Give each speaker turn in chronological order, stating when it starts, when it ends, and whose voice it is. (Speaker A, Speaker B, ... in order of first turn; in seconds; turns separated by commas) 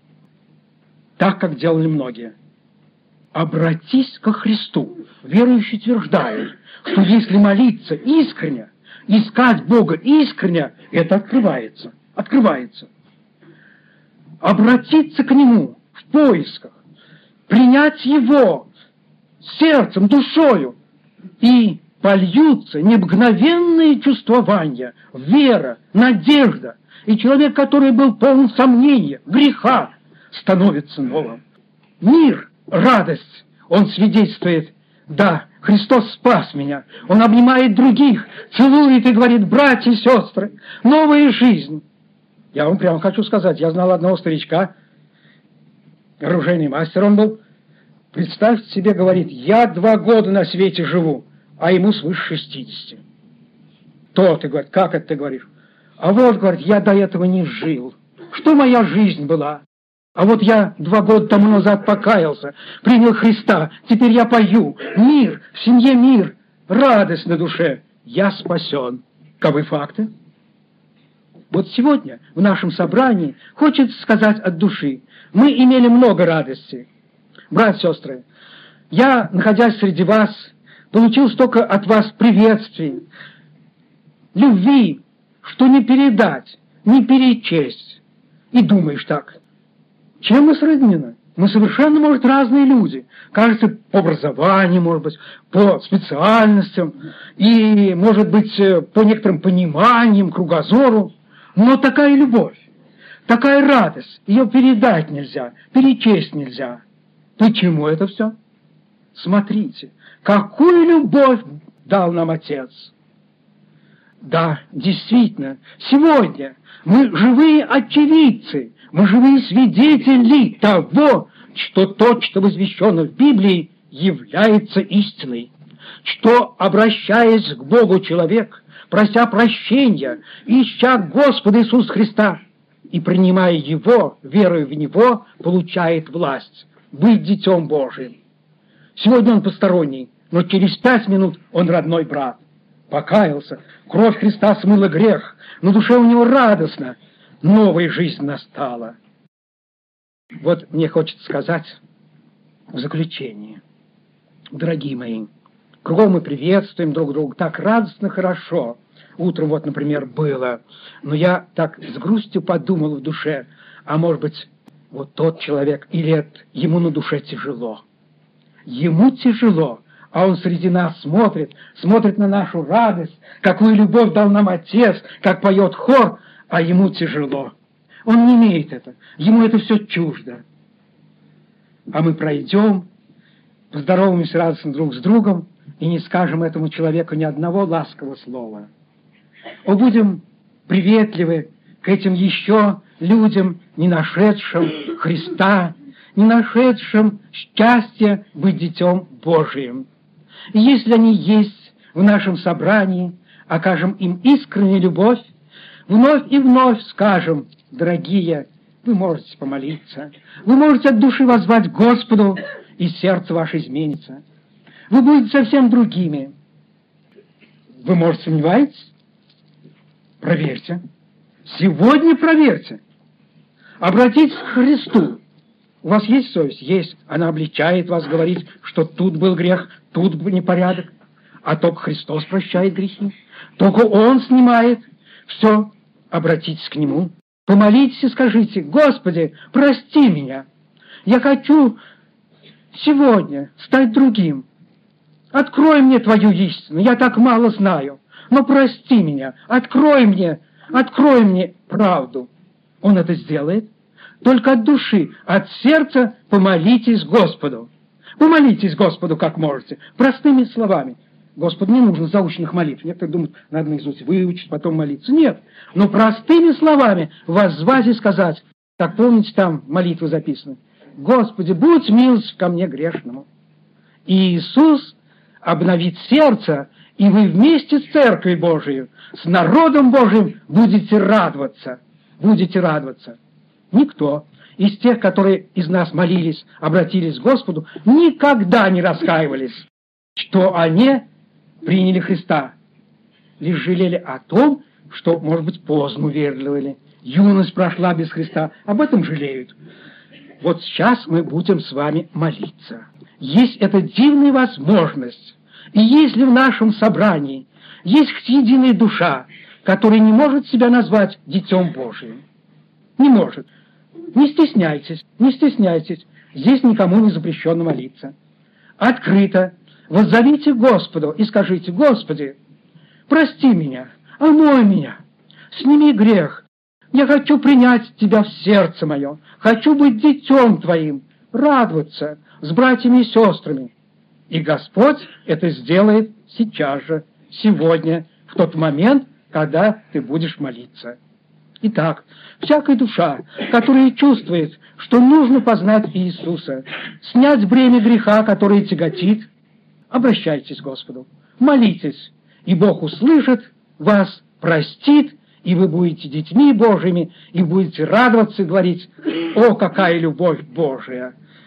Speaker A: 1.2-2.3, Speaker A: 3.3-12.9, Speaker A: 14.4-16.7, Speaker A: 17.5-18.7, Speaker A: 19.4-20.8, Speaker A: 21.4-31.4, Speaker A: 32.0-41.8, Speaker A: 42.5-44.7, Speaker A: 46.2-47.4, Speaker A: 48.1-53.0, Speaker A: 54.1-55.5, Speaker A: 56.0-59.6, Speaker A: 60.1-70.1, Speaker A: 71.5-76.9, Speaker A: 77.5-78.2, Speaker A: 78.9-83.0, Speaker A: 84.3-88.0, Speaker A: 88.5-89.4, Speaker A: 90.2-102.6, Speaker A: 103.3-106.8, Speaker A: 107.4-108.3, Speaker A: 109.1-112.9, Speaker A: 114.2-125.5, Speaker A: 126.0-132.4, Speaker A: 132.9-138.1, Speaker A: 138.9-148.9, Speaker A: 150.4-151.8, Speaker A: 152.7-153.6, Speaker A: 154.5-155.3, Speaker A: 155.8-167.8, Speaker A: 168.7-177.5, Speaker A: 178.1-180.4, Speaker A: 181.9-182.9, Speaker A: 183.7-188.7, Speaker A: 189.7-199.9, Speaker A: 200.5-205.3, Speaker A: 205.9-214.2, Speaker A: 214.9-216.3, Speaker A: 217.8-218.9, Speaker A: 220.2-220.8, Speaker A: 221.4-222.8, Speaker A: 223.8-225.2, Speaker A: 225.8-230.9, Speaker A: 231.4-240.4, Speaker A: 241.0-241.8, Speaker A: 242.7-244.4, Speaker A: 245.3-252.3, Speaker A: 252.8-253.7, Speaker A: 254.2-273.3, Speaker A: 274.1-283.2, Speaker A: 283.7-291.1, Speaker A: 291.6-292.5, Speaker A: 293.4-299.5, Speaker A: 300.4-312.2, Speaker A: 313.0-313.5, Speaker A: 314.1-318.1, Speaker A: 318.8-322.4, Speaker A: 323.1-325.0, Speaker A: 325.5-333.7, Speaker A: 334.3-341.0, Speaker A: 341.6-349.3, Speaker A: 349.9-361.1